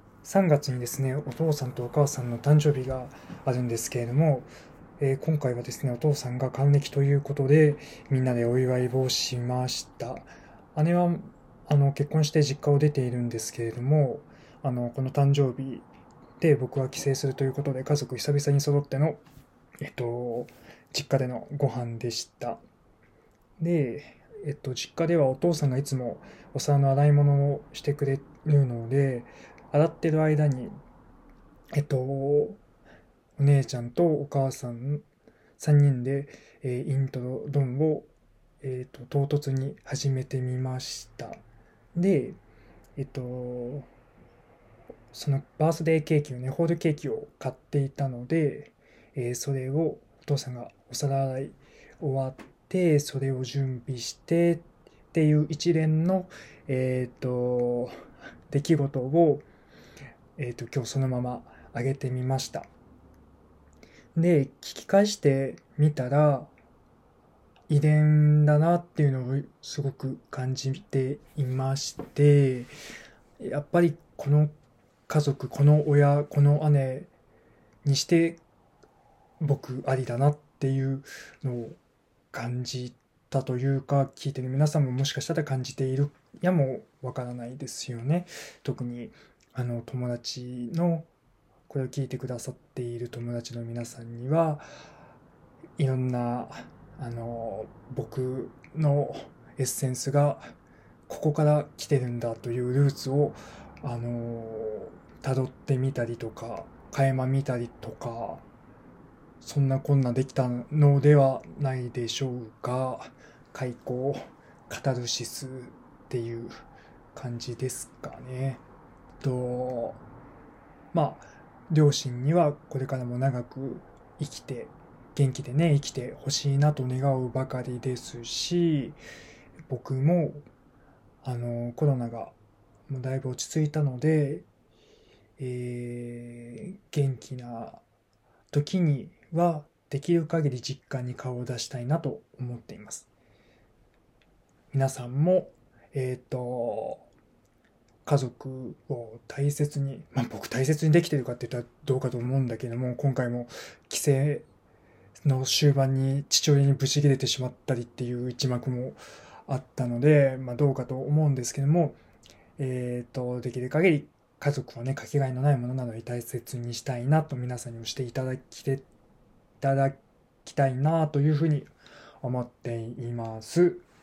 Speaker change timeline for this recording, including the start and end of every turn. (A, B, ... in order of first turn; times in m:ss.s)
0:00.2-0:15.9 A
0:16.4-0:19.2 A
0:19.8-0:22.6 A
0:23.6-0:30.8 A
0:31.7-0:32.6 A
0:33.4-0:35.0 A
0:35.6-0:38.1 A
0:38.6-0:41.4 A
0:41.9-0:42.4 A
0:43.0-0:43.9 A
0:45.1-0:59.4 A
1:00.4-1:02.7 A
1:04.1-1:06.5 A
1:07.7-1:12.7 A
1:13.4-1:14.5 A
1:15.1-1:17.1 A
1:17.8-1:18.4 A
1:19.4-1:21.8 A
1:22.3-1:31.1 A
1:31.7-1:34.7 A
1:35.8-1:40.5 A
1:41.1-1:48.4 A
1:49.4-1:56.6 A
1:57.1-1:58.6 A
1:59.2-2:00.0 A
2:00.9-2:09.0 A
2:09.7-2:10.4 A
2:11.2-2:12.3 A
2:12.9-2:14.4 A
2:15.4-2:17.8 A
2:18.5-2:23.1 A
2:24.7-2:27.0 A
2:28.0-2:34.4 A
2:35.2-2:42.0 A
2:42.6-2:48.9 A
2:49.6-2:53.8 A